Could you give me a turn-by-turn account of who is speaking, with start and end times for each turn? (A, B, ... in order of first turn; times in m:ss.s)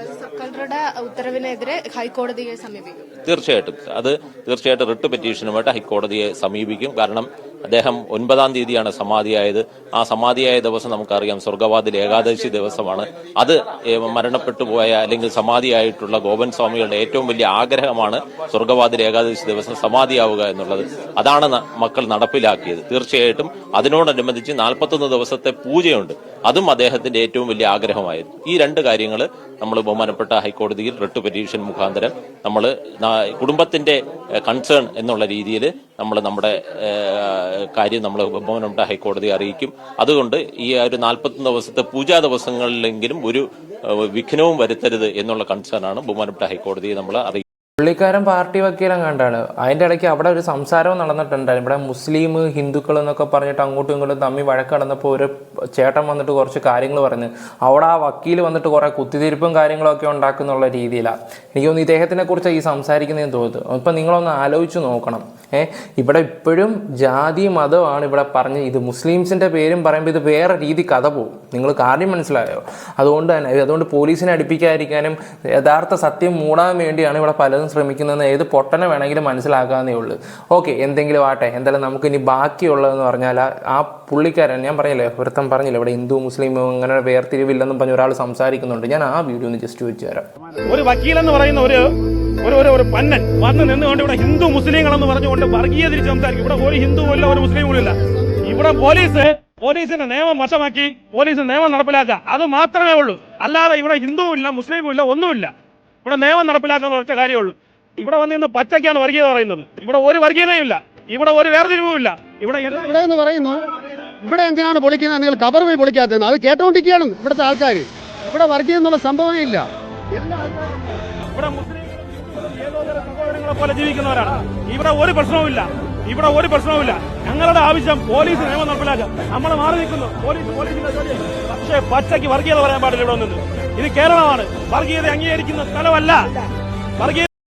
0:00.1-0:03.0 A
0:03.2-0:43.4 B
0:44.0-0:47.4 B
0:47.8-1:30.3 C
1:30.7-1:31.9 D
1:32.4-1:38.0 D
1:38.5-1:45.5 D
1:46.0-1:53.0 D
1:52.8-1:53.7 E
1:54.2-1:59.6 E
2:00.2-2:00.5 E
2:01.3-2:16.2 D
2:17.0-2:17.3 D